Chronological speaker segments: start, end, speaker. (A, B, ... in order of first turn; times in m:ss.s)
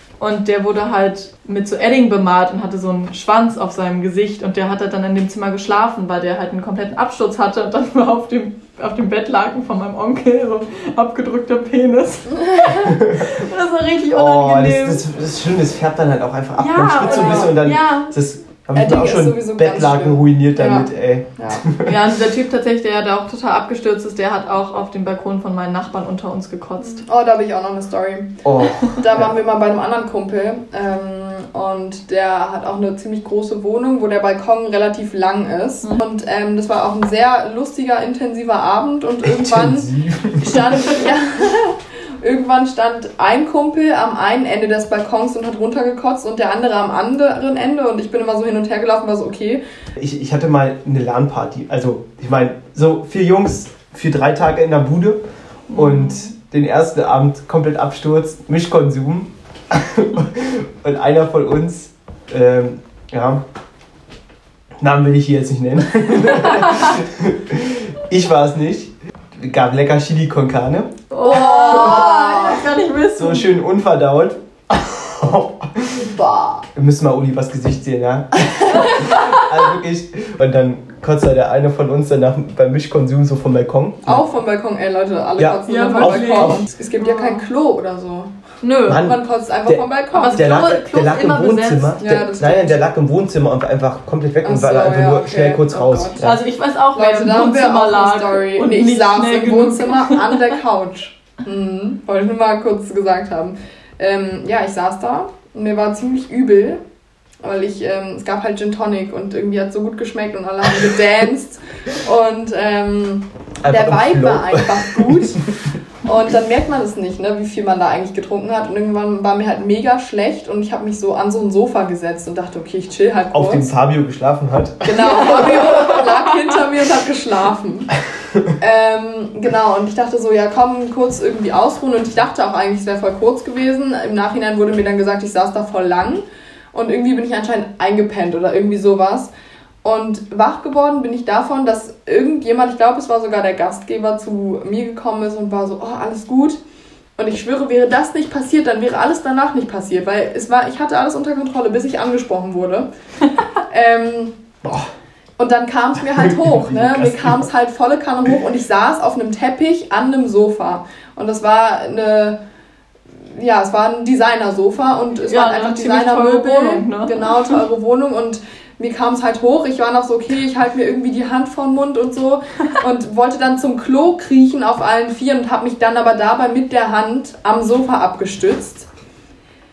0:00.2-0:15.0 A
0:12.7-0:13.4 B
0:14.1-0:22.0 B
0:16.6-0:18.1 A
0:17.0-0:17.6 C
0:18.8-0:21.7 C
0:21.8-0:27.0 A
0:26.8-0:49.6 C
0:28.4-0:29.3 B
0:39.2-0:40.8 B
0:50.0-1:03.4 B
0:55.7-0:56.3 A
1:04.8-1:12.2 B
1:11.1-1:13.5 A
1:11.2-1:12.6 C
1:13.2-1:16.2 B
1:16.1-1:16.7 C
1:16.8-1:24.2 B
1:18.8-1:19.4 A
1:24.0-1:28.3 C
1:25.4-1:26.7 B
1:25.7-1:27.4 A
1:28.6-1:29.0 A
1:28.9-1:36.4 B
1:28.9-1:30.5 C
1:30.1-1:32.0 A
1:32.0-1:32.9 C
1:34.4-1:36.3 C
1:36.2-1:40.5 A
1:36.9-1:46.8 C
1:47.4-1:55.5 C
1:53.6-1:55.6 B
1:56.0-2:03.7 C
2:03.3-2:05.3 B
2:04.8-2:07.9 C
2:05.1-2:05.7 A
2:08.6-2:19.3 C
2:19.8-2:26.6 C
2:27.2-2:32.9 C
2:33.7-2:34.4 C
2:35.4-2:42.4 C
2:36.0-2:37.5 B
2:43.3-2:58.9 C
2:45.2-2:47.6 A